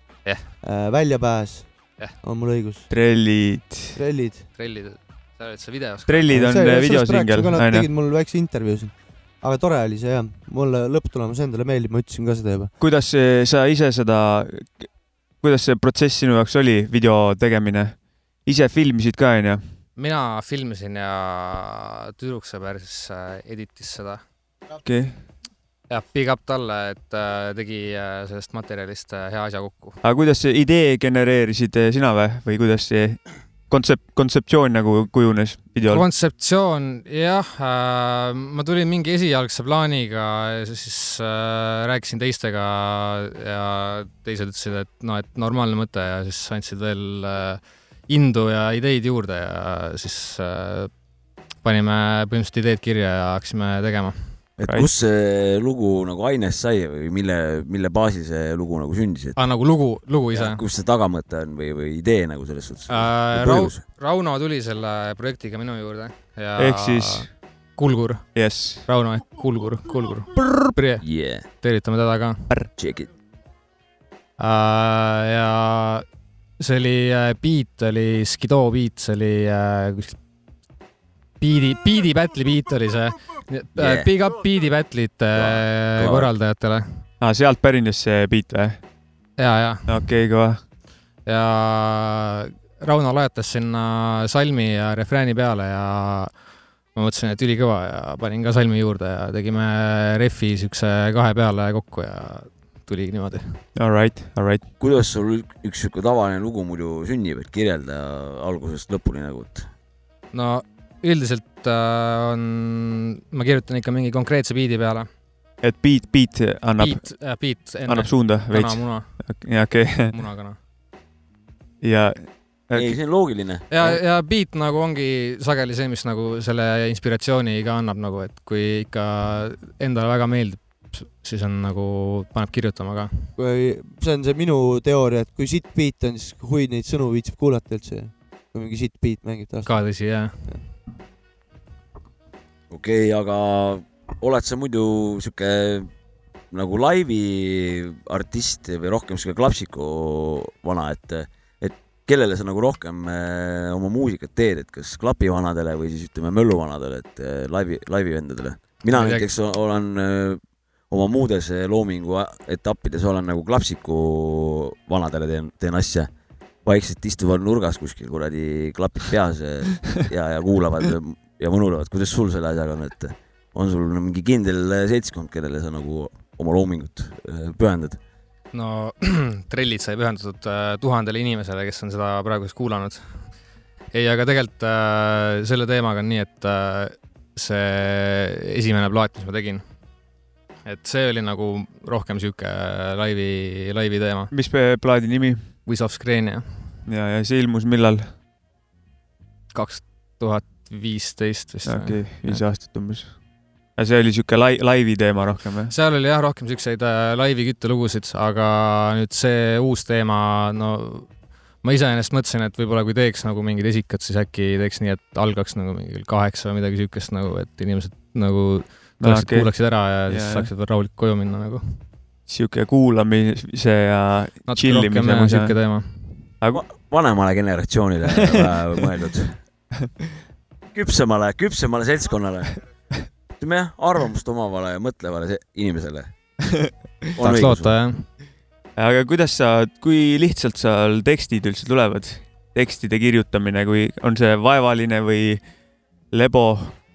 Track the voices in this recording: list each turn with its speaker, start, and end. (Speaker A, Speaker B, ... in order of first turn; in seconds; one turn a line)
Speaker A: 0.6-2.9
Speaker B: 2.9-4.0
Speaker A: 3.9-4.5
Speaker C: 4.6-6.5
Speaker B: 6.1-7.9
Speaker A: 6.3-12.7
Speaker B: 12.8-19.6
Speaker C: 20.0-24.2
Speaker B: 24.8-25.2
Speaker C: 25.9-30.0
Speaker B: 30.0-36.0
Speaker C: 35.9-50.9
Speaker C: 51.6-54.4
Speaker D: 54.6-59.4
Speaker C: 59.4-60.6
Speaker D: 60.3-63.8
Speaker C: 62.9-72.5
Speaker B: 66.6-67.3
Speaker B: 68.3-68.9
Speaker D: 71.0-71.5
Speaker D: 72.8-73.1
Speaker C: 74.4-76.0
Speaker C: 76.6-80.2
Speaker C: 81.4-87.0
Speaker D: 83.8-84.1
Speaker D: 85.3-86.3
Speaker B: 87.2-88.8
Speaker C: 89.4-90.1
Speaker B: 89.9-90.6
Speaker C: 91.2-96.3
Speaker C: 96.9-103.6
Speaker B: 103.8-104.6
Speaker D: 104.8-109.7
Speaker C: 110.3-115.1
Speaker B: 115.6-120.2
Speaker C: 116.8-119.4
Speaker C: 120.1-120.6
Speaker B: 121.8-123.0
Speaker D: 122.7-123.7
Speaker C: 123.7-133.3
Speaker A: 133.4-139.7
Speaker C: 139.7-140.4
Speaker D: 142.7-145.9
Speaker D: 146.5-166.1
Speaker C: 158.9-159.3
Speaker D: 166.6-178.0
Speaker C: 178.5-183.3
Speaker C: 183.9-189.6
Speaker C: 190.6-194.3
Speaker B: 194.3-195.5
Speaker C: 195.6-196.7
Speaker B: 196.9-198.1
Speaker C: 199.5-202.4
Speaker B: 201.6-203.2
Speaker B: 203.8-205.7
Speaker C: 205.7-211.1
Speaker C: 211.6-221.8
Speaker B: 219.0-220.5
Speaker B: 222.2-225.6
Speaker C: 224.5-226.3
Speaker D: 226.5-229.4
Speaker B: 228.1-228.5
Speaker D: 230.7-232.6
Speaker D: 233.4-236.1
Speaker D: 237.2-237.8
Speaker C: 237.2-238.1
Speaker B: 238.8-245.4
Speaker B: 246.1-246.8